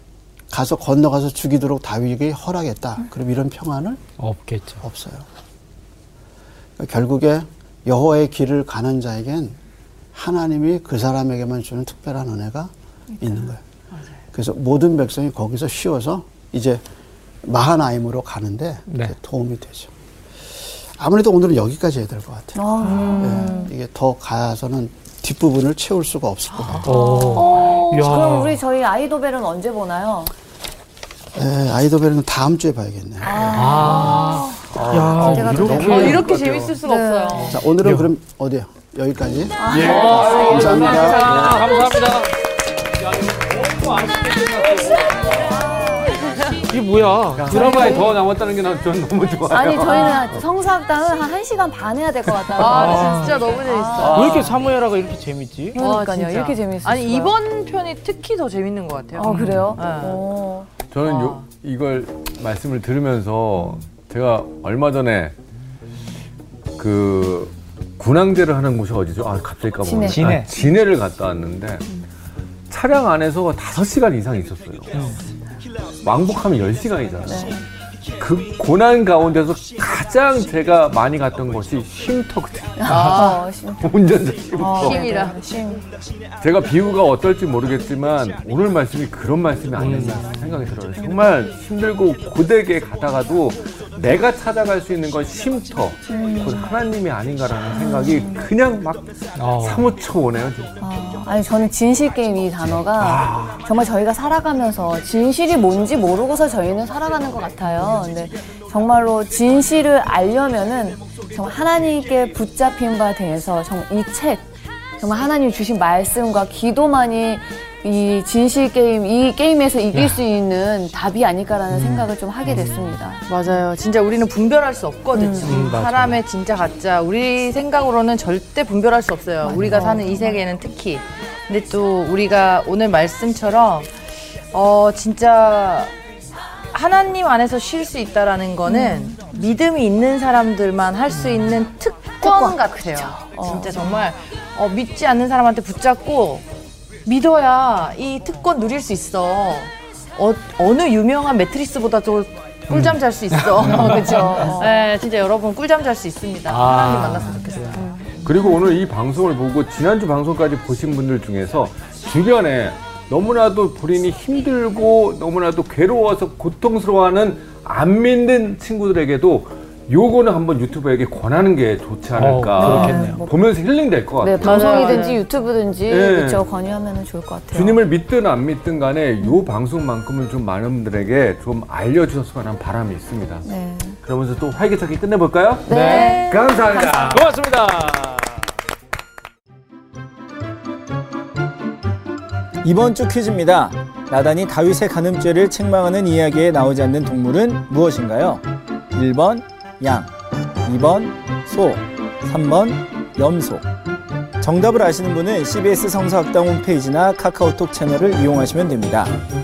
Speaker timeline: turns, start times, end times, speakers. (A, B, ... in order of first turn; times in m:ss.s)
0:00.5-0:04.0 A
0:04.2-0:04.8 B
0:04.8-0:05.3 A
0:06.8-0:09.6 A
0:10.1-0:13.6 A
0:14.3-0:16.8 A
0:17.4-0:19.9 A
0:18.9-0:19.1 B
0:21.0-0:26.9 A
0:22.6-0:23.7 C
0:22.8-0:23.7 D
0:26.8-0:28.6 B
0:26.8-0:30.3 C
0:31.3-0:34.0 A
0:33.2-0:37.6 C
0:33.5-0:36.3 B
0:34.0-0:36.8 E
0:35.3-0:36.2 A
0:35.7-0:37.6 D
0:37.4-0:41.3 A
0:37.8-0:38.1 B
0:39.6-0:42.0 C
0:39.7-0:42.3 B
0:39.7-0:41.7 E
0:43.3-0:45.2 B
0:45.6-0:46.0 C
0:46.7-0:48.2 B
0:47.4-0:50.4 E
0:47.5-0:48.2 C
0:49.5-0:54.5 C
0:52.5-0:54.6 D
0:52.6-0:53.5 B
0:54.0-0:54.6 E
0:54.0-0:55.8 B
0:55.7-0:57.3 C
0:55.8-1:00.2 D
0:59.2-1:00.7 C
0:59.2-0:59.8 B
1:00.9-1:05.3 E
1:01.0-1:01.4 D
1:06.8-1:11.9 E
1:09.8-1:10.4 C
1:10.1-1:10.5 B
1:12.7-1:14.9 E
1:14.9-1:15.2 B
1:16.0-1:17.6 E
1:17.2-1:17.6 C
1:18.2-1:23.1 E
1:22.8-1:23.9 C
1:22.8-1:23.5 D
1:23.8-1:25.1 E
1:24.6-1:25.9 C
1:24.6-1:25.4 D
1:26.4-1:40.8 E
1:29.8-1:30.7 B
1:36.1-1:36.7 C
1:37.9-1:38.4 C
1:39.3-1:39.9 B
1:40.8-1:54.4 C
1:42.8-1:43.6 E
1:55.0-2:03.2 C
1:59.9-2:00.2 B
2:01.7-2:03.0 B
2:03.3-2:15.9 D
2:05.1-2:05.6 C
2:05.4-2:06.2 B
2:09.4-2:10.4 C
2:09.6-2:10.0 B
2:16.7-2:26.4 D
2:18.7-2:19.2 C
2:22.2-2:24.0 C
2:27.0-2:38.0 D
2:32.7-2:34.4 B
2:33.7-2:34.7 C
2:36.5-2:37.7 B
2:36.7-2:37.2 C
2:37.7-2:38.3 C
2:38.2-2:55.2 E
2:52.2-2:53.2 B
2:52.6-2:53.4 C
2:52.7-2:53.2 D
2:54.2-2:57.8 C
2:54.4-2:55.2 D
2:55.9-2:56.4 E
2:57.5-3:03.5 E
3:03.4-3:04.0 C
3:04.0-3:07.2 E
3:05.7-3:07.2 C
3:05.7-3:06.2 B
3:05.8-3:06.2 D
3:07.0-3:08.4 B
3:12.6-3:20.1 F
3:20.6-3:23.7 F
3:24.4-3:29.1 F